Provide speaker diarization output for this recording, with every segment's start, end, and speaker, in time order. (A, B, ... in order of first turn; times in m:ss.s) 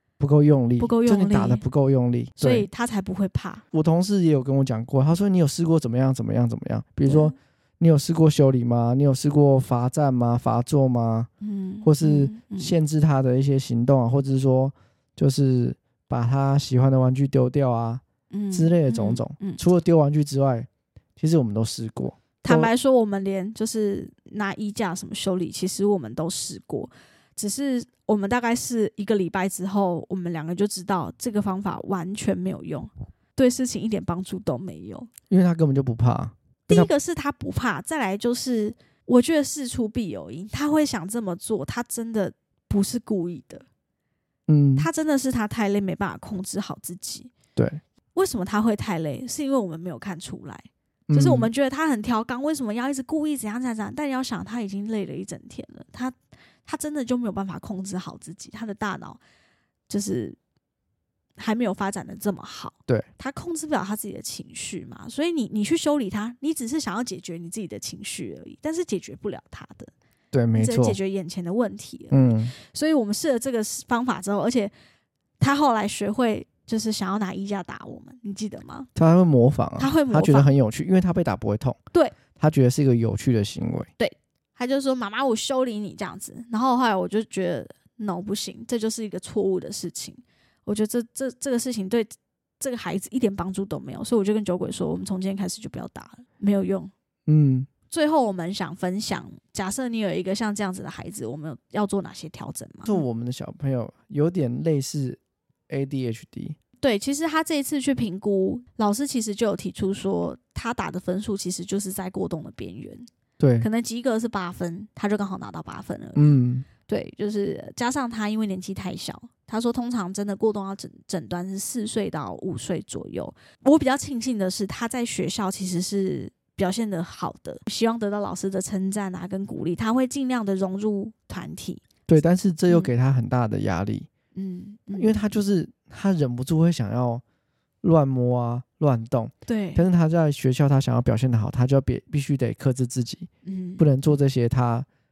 0:00.2-0:02.7 A
0:00.8-0:01.6 B
0:02.4-0:03.6 B
0:03.7-0:11.3 A
0:07.0-0:07.3 B
0:11.4-0:12.7 B
0:11.8-0:22.7 A
0:18.3-0:19.6 B
0:22.4-0:35.1 B
0:35.3-0:36.9 A
0:36.7-0:43.6 B
0:44.5-0:44.9 A
0:44.8-0:47.3 B
0:48.1-0:59.2 B
0:51.1-0:51.5 A
0:59.9-1:00.4 B
1:01.4-1:09.9 B
1:10.3-1:11.0 A
1:10.6-1:14.7 B
1:12.1-1:12.5 A
1:15.4-1:18.9 B
1:19.0-1:21.8 A
1:19.8-1:20.5 B
1:22.4-1:23.9 A
1:24.0-1:36.9 B
1:37.3-1:37.7 A
1:37.9-1:43.0 B
1:42.8-1:46.6 A
1:46.8-1:53.1 B
1:53.4-1:53.7 A
1:53.6-1:56.2 B
1:56.1-1:56.7 A
1:56.9-2:11.8 B
2:12.1-2:14.1 A
2:14.4-2:15.2 B
2:14.9-2:17.2 A
2:17.8-2:24.9 A
2:19.5-2:19.8 B
2:23.4-2:23.9 B